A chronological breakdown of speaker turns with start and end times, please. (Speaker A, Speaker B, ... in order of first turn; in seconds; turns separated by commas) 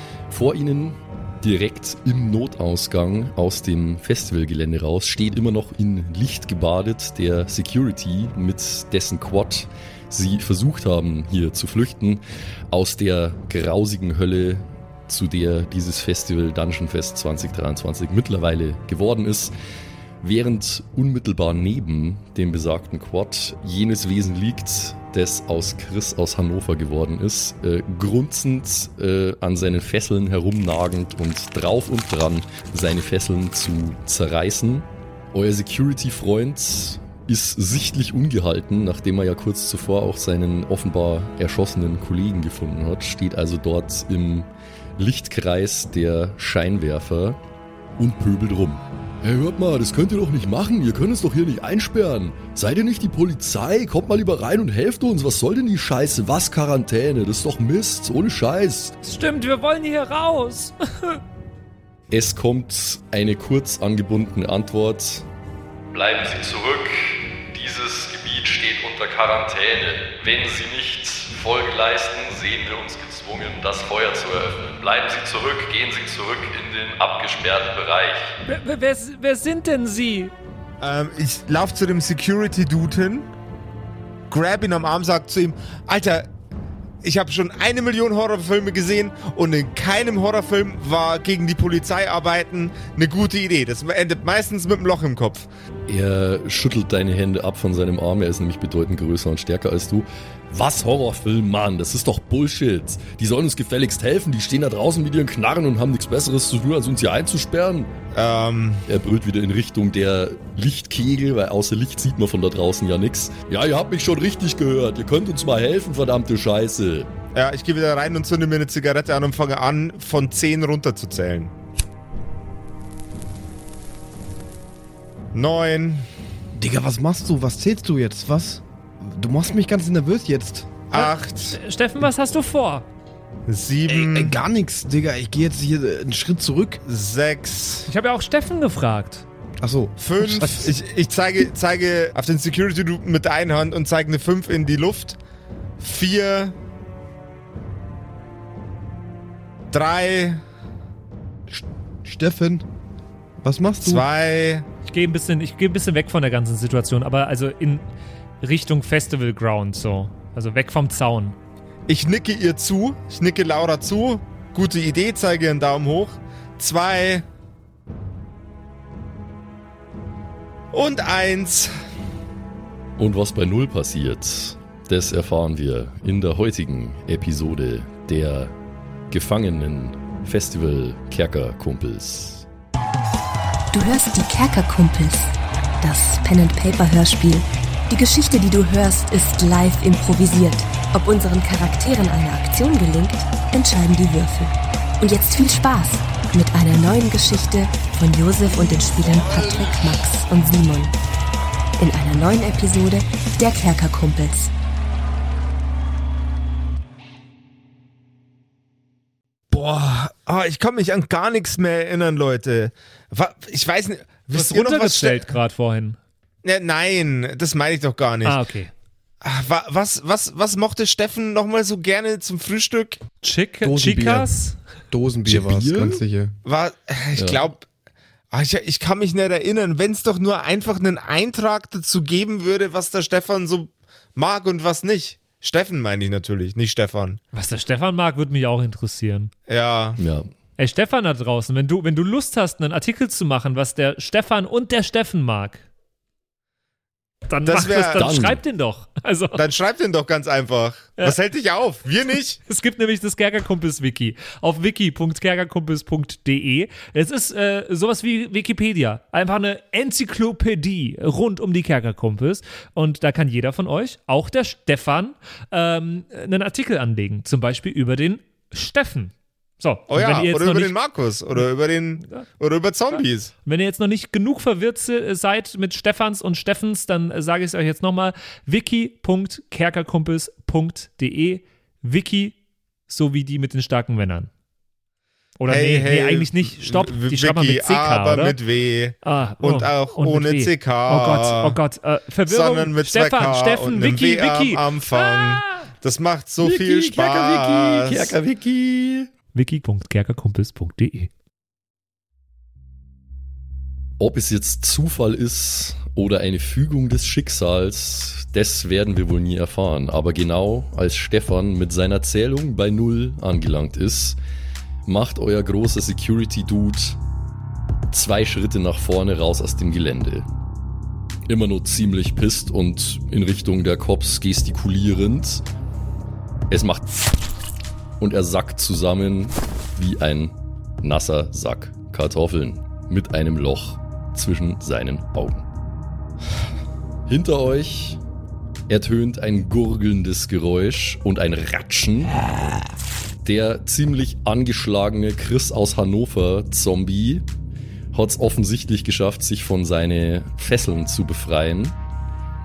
Speaker A: 0.3-19.5, Speaker A: 20.2-47.4, Speaker A: 48.0-59.0, Speaker B: 59.0-61.2, Speaker A: 62.1-65.3, Speaker A: 65.9-78.3, Speaker B: 78.5-80.3, Speaker C: 80.8-83.3, Speaker C: 84.3-86.3, Speaker C: 87.0-95.5, Speaker A: 95.9-107.9, Speaker C: 108.1-108.9, Speaker A: 108.9-117.1, Speaker C: 117.3-121.5, Speaker C: 125.3-126.0, Speaker D: 126.5-130.7, Speaker C: 130.9-131.6, Speaker B: 130.9-132.8, Speaker C: 133.5-134.3, Speaker D: 133.9-136.8, Speaker C: 136.8-137.9, Speaker B: 137.9-139.2, Speaker D: 139.6-140.7, Speaker C: 140.0-145.2, Speaker C: 145.8-146.5, Speaker C: 149.7-150.4, Speaker D: 151.5-152.7, Speaker D: 153.4-154.1, Speaker C: 153.8-154.7, Speaker B: 154.8-157.8, Speaker B: 158.4-161.3, Speaker C: 161.9-167.2, Speaker C: 170.7-171.7, Speaker A: 173.0-178.5, Speaker A: 179.1-182.4, Speaker E: 183.7-200.9, Speaker E: 201.8-204.5, Speaker C: 209.5-215.2, Speaker B: 214.3-216.0, Speaker C: 216.4-218.4, Speaker B: 218.2-218.7, Speaker C: 219.2-223.0, Speaker B: 223.2-224.6, Speaker D: 223.6-224.3, Speaker D: 224.9-226.3, Speaker A: 225.2-226.0, Speaker C: 226.4-227.7, Speaker A: 227.2-227.4, Speaker C: 228.3-237.2, Speaker B: 237.3-239.3, Speaker C: 239.5-240.0, Speaker A: 240.0-240.3, Speaker B: 240.6-245.7, Speaker B: 247.3-249.5, Speaker C: 247.5-248.1, Speaker A: 248.0-248.4, Speaker C: 249.3-252.4, Speaker B: 252.5-270.7, Speaker C: 269.9-273.3, Speaker B: 273.4-282.4, Speaker B: 282.9-284.3, Speaker B: 285.4-288.4, Speaker C: 285.5-291.6, Speaker B: 289.0-295.7, Speaker C: 292.3-298.2, Speaker A: 296.4-299.1, Speaker B: 299.3-301.1, Speaker A: 304.0-314.2, Speaker A: 314.9-317.0, Speaker A: 317.9-320.2, Speaker A: 321.3-325.4, Speaker A: 326.5-327.0, Speaker A: 328.0-335.5, Speaker A: 337.1-338.0, Speaker A: 338.7-342.2, Speaker A: 343.2-347.2, Speaker A: 347.9-351.8